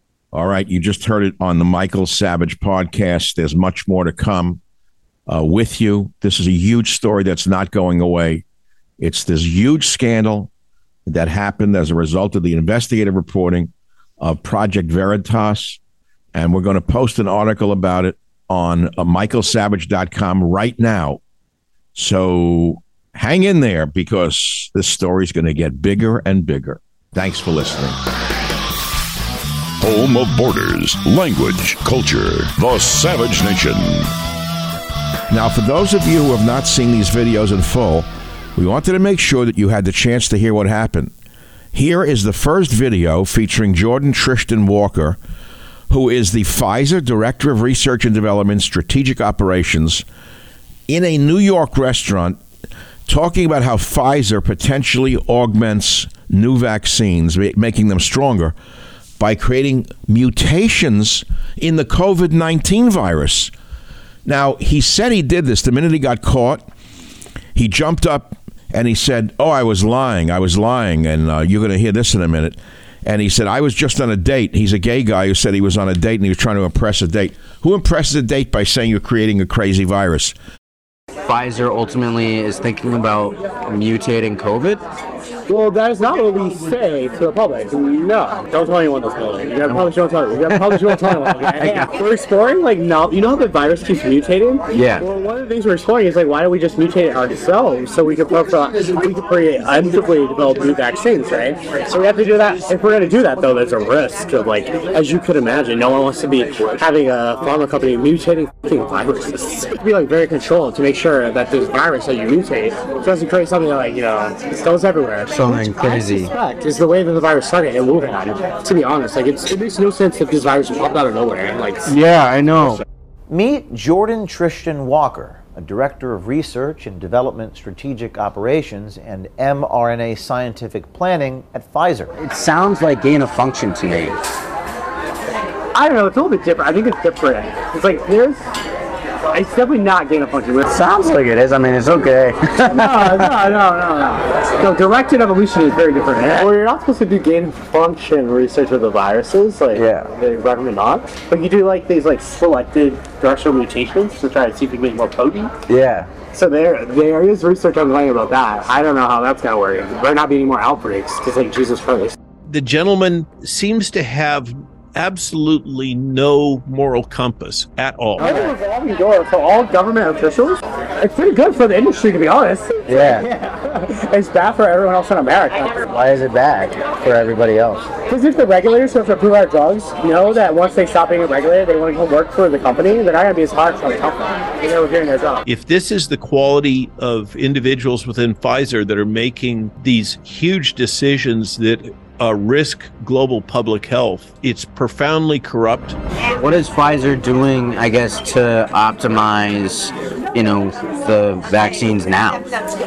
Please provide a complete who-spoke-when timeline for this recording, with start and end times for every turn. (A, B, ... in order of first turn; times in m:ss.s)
0:00.3-0:04.6 A
0:05.3-0:08.4 A
0:09.0-0:10.5 A
0:11.0-0:15.8 A
0:16.3-0:21.2 A
0:21.9-0:28.0 A
0:29.8-0:34.1 B
0:35.3-0:41.1 A
0:41.7-0:45.2 A
0:45.9-0:50.0 A
0:50.9-0:52.4 A
0:53.1-0:58.5 A
0:59.2-1:03.5 A
1:04.2-1:06.7 A
1:07.5-1:20.3 A
1:21.2-1:24.8 C
1:25.5-2:01.9 D
1:30.4-1:31.9 C
1:34.7-1:35.0 C
1:55.3-1:56.3 C
2:01.9-2:02.8 C
2:03.3-2:12.1 E
2:12.2-2:14.2 C
2:15.7-2:18.4 D
2:19.3-2:20.7 D
2:20.7-2:23.3 C
2:22.7-2:35.5 D
2:29.7-2:30.0 C
2:35.7-2:36.1 C
2:36.3-2:42.2 D
2:42.5-2:48.3 F
2:48.2-2:48.5 C
2:48.2-2:55.8 D
2:52.9-2:53.3 C
2:55.9-2:57.8 C
2:58.1-3:05.4 D
3:05.4-3:16.0 F
3:16.4-3:22.4 C